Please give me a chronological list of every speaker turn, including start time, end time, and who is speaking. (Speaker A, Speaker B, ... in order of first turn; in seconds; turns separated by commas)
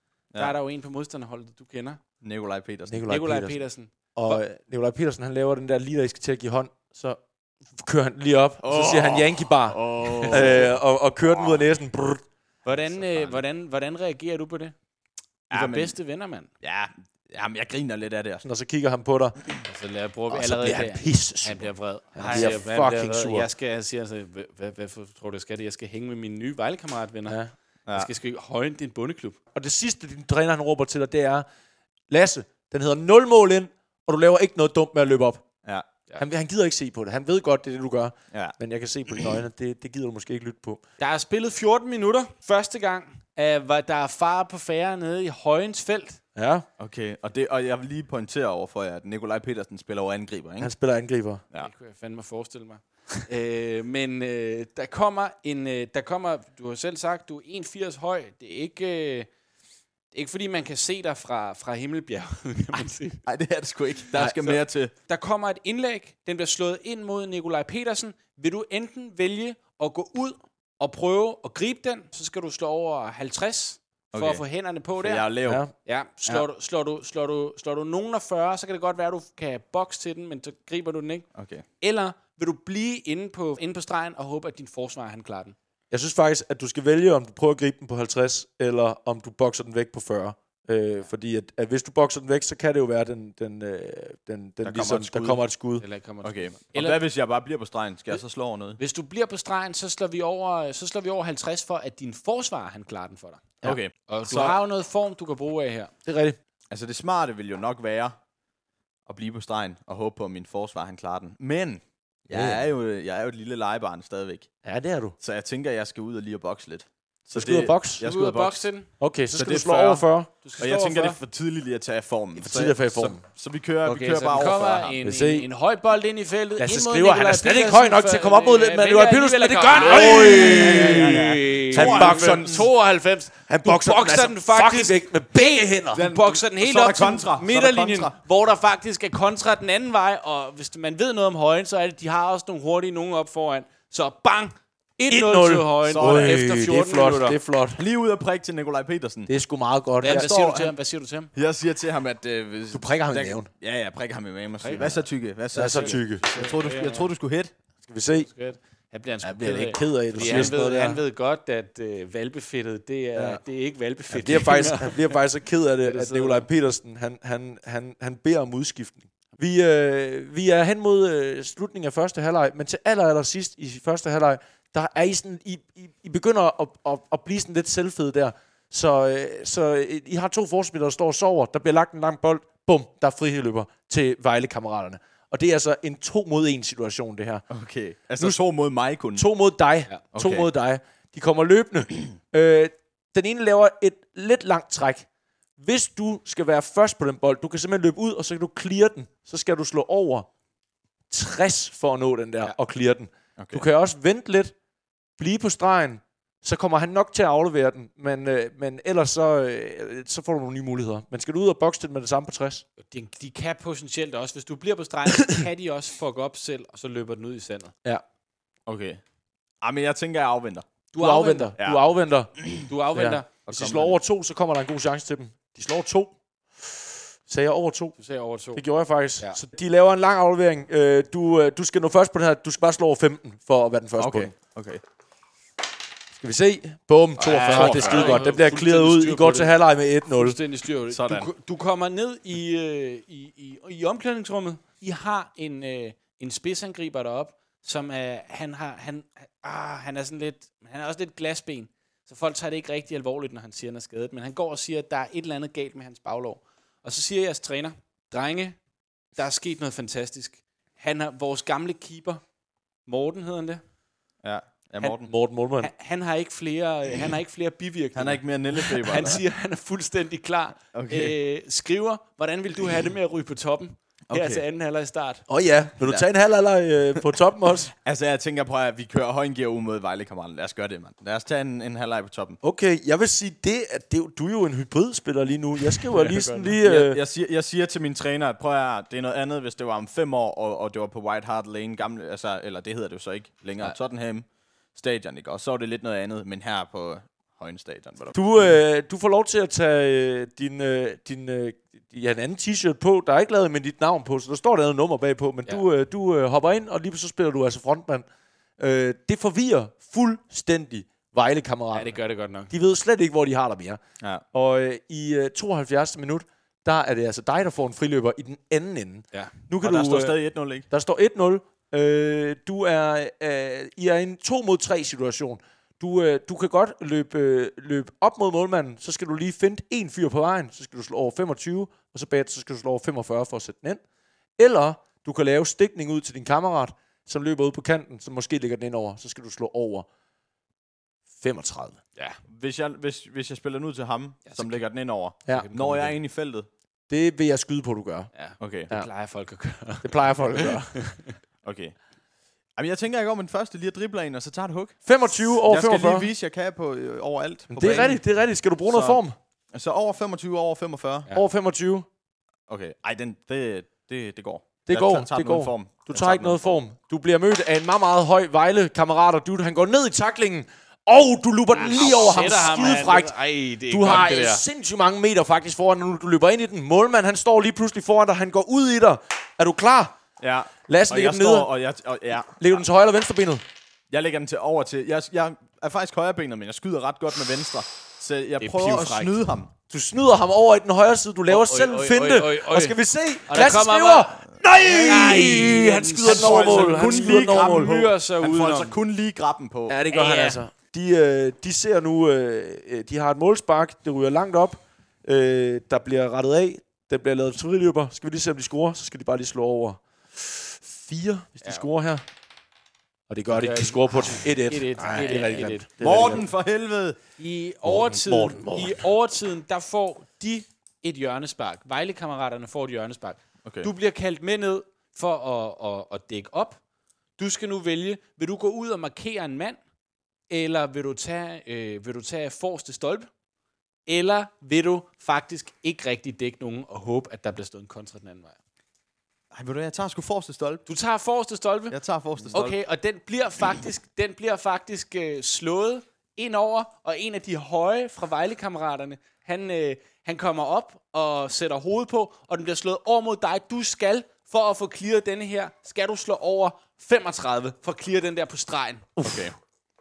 Speaker A: 0.3-2.0, Speaker B: 2.2-3.2, Speaker C: 2.9-3.6, Speaker A: 3.1-4.4, Speaker C: 4.1-7.2, Speaker C: 7.7-12.2, Speaker B: 8.6-10.8, Speaker B: 11.4-11.7, Speaker A: 12.6-14.7, Speaker B: 12.7-13.4, Speaker B: 15.5-15.9, Speaker A: 15.5-16.5, Speaker B: 16.6-18.4, Speaker C: 18.4-19.5, Speaker A: 19.6-29.4, Speaker C: 20.3-23.4, Speaker B: 22.2-22.5, Speaker C: 29.5-31.4, Speaker C: 32.1-35.4, Speaker C: 36.2-40.8, Speaker A: 41.0-46.2, Speaker C: 46.3-46.7, Speaker B: 46.8-50.7, Speaker C: 50.6-51.4, Speaker A: 51.6-59.3, Speaker A: 60.1-63.2, Speaker B: 63.2-64.9, Speaker A: 64.2-75.3, Speaker B: 74.1-74.4, Speaker B: 75.0-75.6, Speaker C: 75.5-75.7, Speaker A: 75.8-81.2, Speaker B: 81.3-81.6, Speaker A: 81.8-85.5, Speaker C: 85.9-95.8, Speaker B: 94.6-95.4, Speaker A: 95.8-97.0, Speaker B: 96.2-98.8, Speaker A: 98.8-105.9, Speaker B: 103.6-104.6, Speaker C: 106.0-106.4, Speaker B: 106.7-108.2, Speaker B: 109.1-114.5, Speaker C: 112.3-112.6, Speaker C: 114.6-115.1, Speaker B: 115.2-118.7, Speaker C: 117.3-118.0, Speaker A: 118.0-118.9, Speaker C: 119.0-120.3, Speaker B: 119.3-120.0, Speaker A: 120.4-121.2, Speaker B: 120.6-125.0, Speaker C: 122.4-123.2, Speaker A: 123.8-147.4, Speaker C: 125.0-125.5, Speaker C: 126.6-132.7, Speaker B: 129.7-132.7, Speaker C: 133.5-136.1, Speaker B: 135.9-138.1, Speaker C: 145.1-147.8, Speaker B: 145.9-146.4, Speaker B: 147.8-149.3, Speaker C: 149.3-150.3, Speaker A: 150.0-151.3, Speaker B: 150.0-150.7, Speaker B: 151.3-157.5, Speaker C: 152.7-153.5, Speaker A: 154.6-155.0, Speaker C: 155.5-156.2, Speaker A: 155.6-157.1, Speaker C: 157.9-158.3, Speaker A: 158.1-165.2, Speaker C: 159.2-161.0, Speaker B: 160.2-160.5, Speaker C: 163.2-163.4, Speaker C: 164.1-187.4, Speaker A: 165.8-166.5, Speaker B: 187.5-189.2, Speaker C: 189.2-195.1, Speaker B: 190.1-190.5, Speaker C: 195.6-200.3, Speaker C: 201.1-204.5, Speaker B: 203.4-203.6, Speaker C: 205.2-212.6, Speaker A: 212.8-217.7, Speaker B: 218.7-219.0, Speaker B: 219.6-220.7, Speaker A: 220.9-221.5, Speaker C: 220.9-222.3, Speaker B: 221.6-221.8, Speaker A: 222.7-223.3, Speaker C: 222.9-227.9, Speaker B: 223.4-224.0, Speaker A: 228.0-228.6, Speaker C: 228.5-234.3, Speaker B: 234.0-234.8, Speaker C: 236.1-240.4, Speaker A: 237.2-258.6, Speaker B: 237.4-238.2, Speaker B: 240.9-241.3, Speaker A: 259.1-262.2, Speaker A: 262.9-263.6, Speaker B: 264.2-265.1, Speaker C: 265.1-265.7, Speaker A: 265.6-275.2, Speaker B: 267.9-269.2, Speaker B: 270.7-271.1, Speaker B: 274.1-274.4, Speaker C: 275.3-277.7, Speaker B: 277.8-282.4, Speaker C: 282.4-287.0, Speaker B: 285.9-298.2, Speaker A: 286.0-286.3, Speaker C: 298.1-308.1, Speaker C: 308.6-311.9, Speaker A: 311.7-312.5, Speaker C: 312.5-313.8, Speaker C: 314.3-320.1, Speaker B: 319.6-320.7, Speaker C: 320.7-333.8, Speaker C: 334.4-339.9, Speaker C: 341.1-341.8, Speaker B: 342.3-346.5, Speaker A: 344.3-344.6, Speaker A: 345.3-346.0, Speaker C: 346.9-348.1, Speaker A: 348.1-351.1, Speaker B: 348.4-348.7, Speaker C: 349.8-350.7, Speaker B: 351.4-351.8, Speaker B: 352.6-354.8, Speaker C: 354.9-356.1, Speaker B: 355.4-358.0, Speaker C: 357.5-359.1, Speaker B: 358.7-359.0, Speaker B: 359.5-361.1, Speaker C: 361.1-361.9, Speaker B: 362.5-366.6, Speaker C: 364.7-373.1, Speaker A: 371.5-374.4, Speaker C: 373.7-380.0, Speaker B: 380.2-382.6, Speaker C: 380.7-381.5, Speaker C: 382.4-383.4, Speaker B: 383.9-389.5, Speaker A: 388.4-389.2, Speaker C: 389.7-397.9, Speaker A: 391.3-392.8, Speaker A: 393.3-398.8, Speaker B: 396.0-399.8, Speaker C: 399.7-412.0, Speaker A: 399.9-400.4, Speaker C: 413.1-416.2, Speaker A: 413.3-416.1, Speaker B: 415.8-417.0, Speaker A: 417.2-426.6, Speaker C: 417.6-418.8, Speaker B: 423.4-423.7, Speaker A: 427.2-429.6, Speaker A: 430.3-433.1, Speaker A: 433.9-438.4, Speaker B: 439.3-440.6, Speaker A: 440.6-441.8, Speaker B: 441.7-442.6, Speaker A: 442.3-458.9, Speaker C: 459.0-459.3, Speaker B: 459.0-459.3